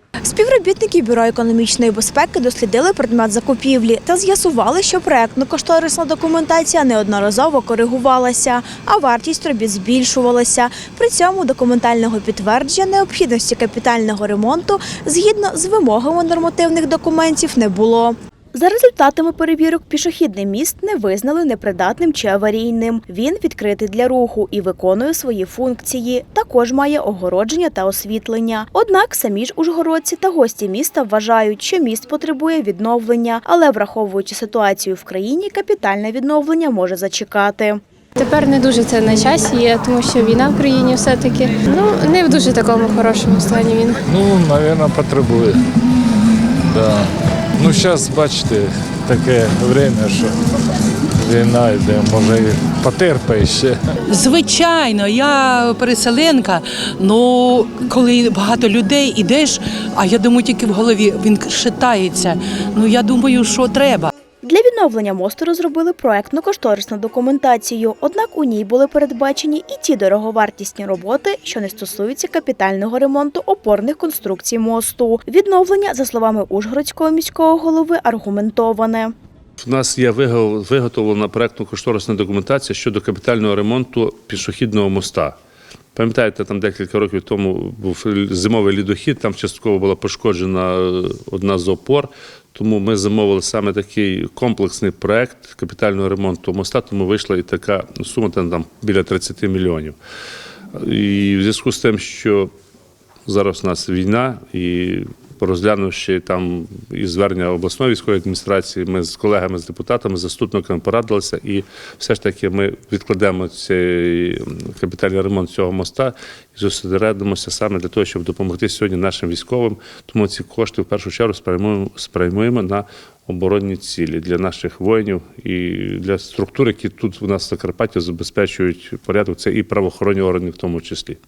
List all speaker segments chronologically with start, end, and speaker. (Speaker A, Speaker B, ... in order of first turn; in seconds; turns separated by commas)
Speaker A: 0.2-37.8, Speaker B: 38.2-44.0, Speaker C: 44.1-45.6, Speaker C: 46.7-50.4, Speaker C: 51.2-53.8, Speaker D: 54.1-64.1, Speaker A: 64.4-79.1, Speaker E: 79.6-85.4, Speaker E: 86.0-100.0, Speaker E: 100.8-102.5, Speaker E: 103.3-131.2